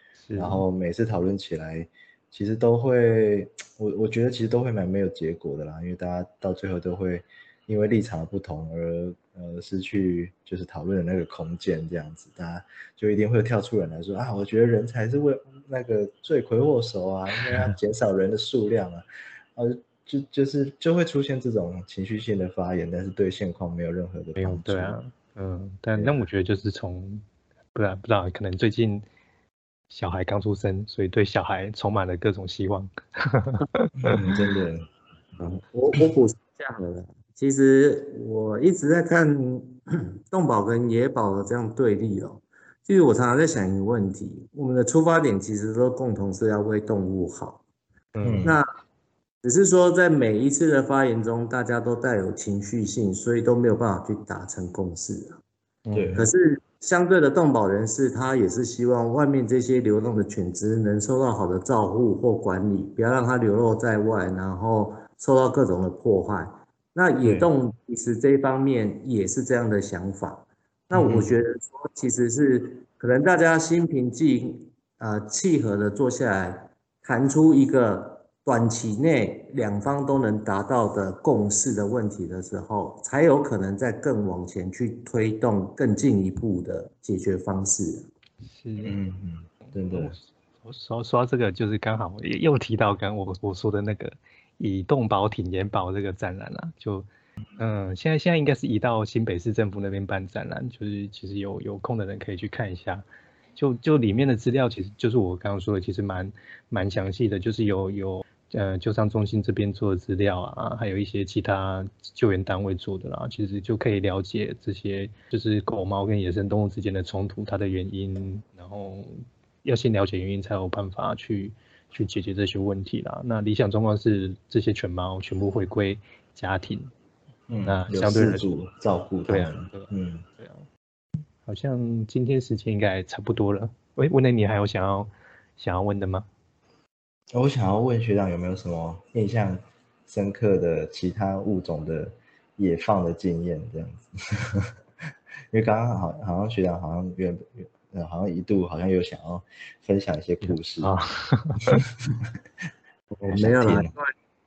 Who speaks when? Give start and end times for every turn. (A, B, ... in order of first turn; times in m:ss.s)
0:00.2-0:00.6 A
0:00.4-0:25.0 B
0:24.4-0:29.0 A
0:26.0-0:26.2 B
0:29.9-0:34.2 A
0:34.0-0:34.9 B
0:35.4-0:47.6 C
0:48.1-0:48.5 A
0:48.2-0:48.6 B
0:49.4-0:55.4 C
0:55.8-0:56.2 A
0:55.9-0:56.3 B
0:56.2-1:28.1 C
1:10.9-1:11.4 B
1:28.4-1:29.0 A
1:28.8-1:30.2 B
1:29.7-1:37.1 A
1:37.6-1:43.0 A
1:43.6-2:06.9 A
2:07.5-2:10.2 B
2:07.6-2:08.4 A
2:09.3-2:10.7 A
2:11.4-2:16.3 A
2:17.3-2:24.7 B
2:25.5-2:30.9 B
2:30.4-2:31.9 A
2:33.1-2:34.1 C
2:33.3-2:33.9 B